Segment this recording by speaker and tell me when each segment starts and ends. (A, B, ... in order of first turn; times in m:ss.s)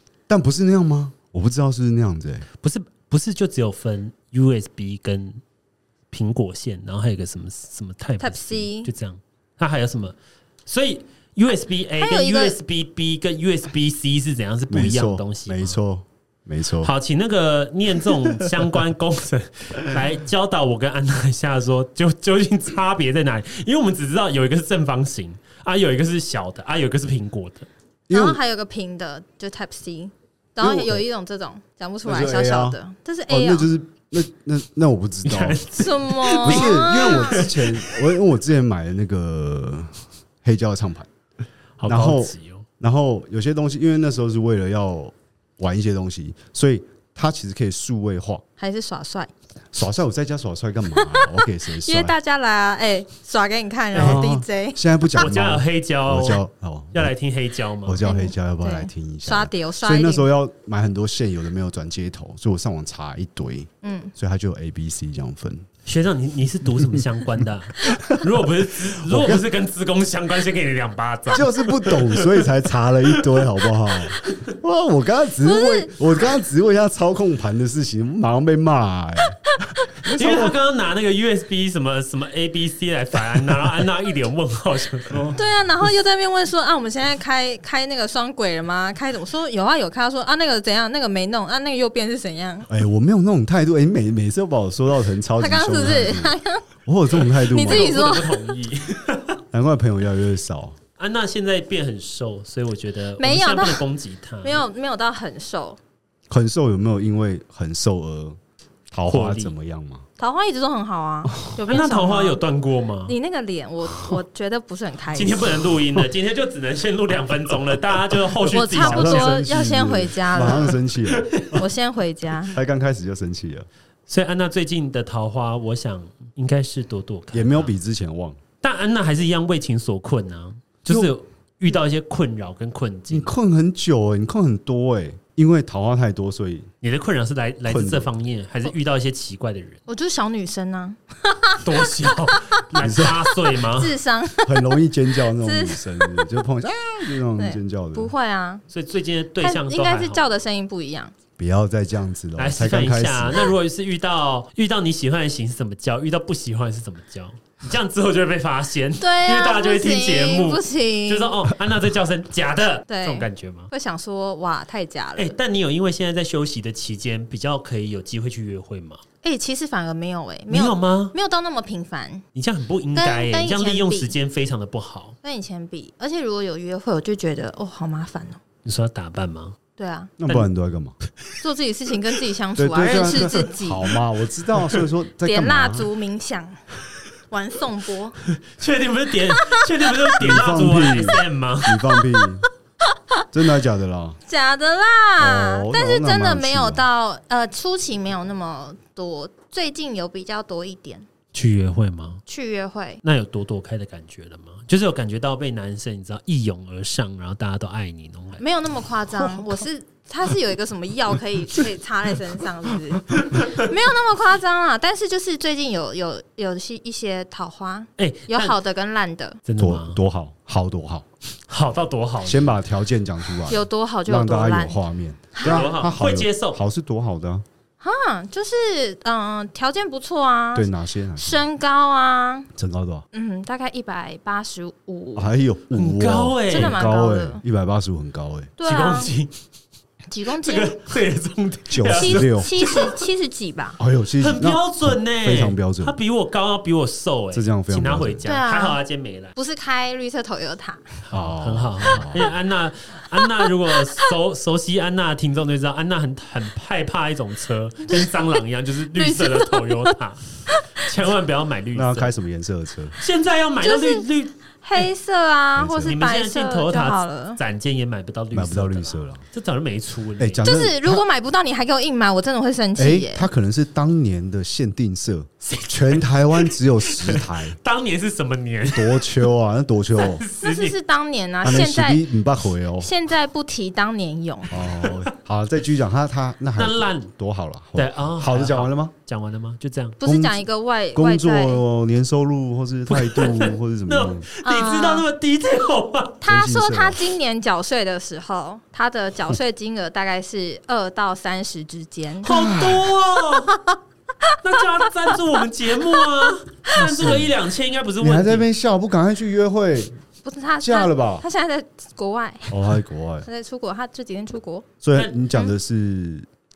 0:00.3-0:02.5 A
0:02.6-0:05.4 B
0:06.1-0:15.8 B
0:08.2-0:08.9 C
0:12.0-0:12.6 C
0:14.7-0:16.9 A
0:16.8-0:27.7 B
0:28.1-0:28.4 A
0:28.1-0:33.7 C
0:30.6-0:31.0 A
0:32.0-0:35.6 A
0:35.2-0:38.0 B
0:35.7-0:37.4 C
0:36.4-0:41.1 A
0:41.8-0:42.6 B
0:41.8-0:48.4 A
0:48.6-0:49.3 C
0:49.7-0:52.1 A
0:51.0-0:54.8 C
0:53.9-0:54.2 B
0:53.9-0:57.1 A
0:55.1-0:56.4 B
0:56.9-0:58.0 B
0:57.8-1:05.7 A
0:58.0-1:00.3 C
1:03.8-1:04.1 C
1:05.8-1:12.5 B
1:06.7-1:09.4 A
1:11.3-1:20.6 A
1:13.0-1:14.4 B
1:15.4-1:16.0 C
1:20.1-1:25.3 B
1:25.1-1:25.4 A
1:25.3-1:32.7 C
1:32.7-1:38.0 A
1:35.4-1:36.6 C
1:37.2-1:38.6 C
1:37.5-1:39.4 B
1:39.5-1:40.8 A
1:41.0-1:44.6 B
1:43.2-1:43.8 C
1:44.4-1:45.8 C
1:46.3-1:48.4 A
1:48.9-1:50.0 A
1:49.1-1:49.5 B
1:50.2-1:52.4 C
1:51.3-1:51.5 A
1:51.7-1:53.2 B
1:53.1-1:55.6 C
1:55.1-1:59.4 B
1:58.5-2:00.8 C
1:58.7-2:01.6 A
2:00.4-2:01.5 B
2:01.5-2:02.5 C
2:02.5-2:03.7 A
2:04.1-2:07.7 B
2:07.3-2:08.4 A
2:08.6-2:13.3 B
2:13.1-2:16.7 A
2:16.8-2:19.8 B
2:17.6-2:18.1 A
2:19.9-2:22.6 C
2:21.6-2:24.0 B
2:22.7-2:23.2 A
2:23.6-2:24.8 C
2:24.4-2:28.1 A
2:25.3-2:26.4 C
2:27.4-2:28.6 C
2:28.7-2:30.2 B
2:29.4-2:31.1 C
2:31.4-2:33.5 A
2:32.4-2:43.7 B
2:39.0-2:41.3 C
2:42.9-2:45.3 C
2:45.2-2:49.0 B
2:49.2-2:52.2 C
2:50.5-2:51.1 B
2:52.3-2:55.2 B
2:52.9-2:54.1 C
2:55.2-2:58.4 C
2:58.6-2:59.5 B
2:59.8-3:00.1 C
3:00.2-3:01.0 A
3:01.4-3:03.9 C
3:02.6-3:05.9 A
3:05.2-3:06.6 C
3:07.3-3:08.2 C
3:08.3-3:11.8 B
3:09.4-3:09.9 C
3:10.2-3:12.4 A
3:11.9-3:12.2 C
3:12.8-3:13.2 C
3:13.3-3:14.2 A
3:14.3-3:21.1 C
3:15.2-3:16.9 A
3:21.3-3:22.2 B
3:22.3-3:23.0 C
3:23.0-3:28.4 B
3:28.4-3:39.4 C
3:33.1-3:33.6 B
3:38.0-3:38.5 B
3:39.4-3:40.0 B
3:39.6-3:41.1 A
3:41.5-3:42.6 B
3:42.2-3:47.4 A
3:43.5-3:44.8 C
3:45.4-3:45.7 C
3:45.4-3:46.6 B
3:47.8-3:52.5 C
3:50.5-3:51.4 A
3:52.5-3:53.0 A
3:53.1-3:55.3 C
3:55.2-3:58.5 A
3:55.7-3:56.8 B
3:56.5-3:57.4 C
3:58.6-3:59.1 C
3:58.6-3:59.4 B
4:00.1-4:00.7 C
4:00.4-4:03.1 B
4:01.7-4:02.5 A
4:01.9-4:03.8 C
4:03.8-4:06.0 A
4:04.2-4:09.3 B
4:07.3-4:08.2 A
4:08.2-4:08.8 C
4:09.4-4:10.9 C
4:11.0-4:22.1 B
4:11.1-4:12.3 A
4:13.2-4:14.1 C
4:17.9-4:18.2 C
4:18.9-4:19.9 C
4:20.5-4:20.9 C
4:21.7-4:23.0 A
4:23.0-4:24.8 B
4:23.6-4:24.0 C
4:24.6-4:27.4 C
4:25.6-4:26.0 A
4:25.8-4:30.4 B
4:28.3-4:29.2 A
4:30.2-4:31.0 A
4:30.4-4:33.3 C
4:32.8-4:37.6 A
4:35.4-4:39.2 B
4:38.7-4:40.2 A
4:40.0-4:40.8 B
4:40.4-4:42.1 C
4:41.4-4:42.9 A
4:42.8-4:44.5 C
4:44.5-4:48.9 A
4:44.6-4:45.1 B
4:46.6-4:47.1 B
4:47.8-4:50.0 B
4:50.0-4:51.6 C
4:50.0-4:54.2 A
4:52.9-4:56.2 B
4:54.4-4:55.0 C
4:56.2-5:02.5 C
4:56.2-4:57.0 A
5:02.2-5:03.6 B
5:02.2-5:02.9 A
5:03.5-5:05.1 C
5:04.4-5:08.5 B
5:06.8-5:07.3 A
5:08.0-5:10.0 A
5:10.2-5:12.5 C
5:10.6-5:11.2 A
5:12.5-5:13.3 A
5:13.2-5:14.7 C
5:14.8-5:16.3 A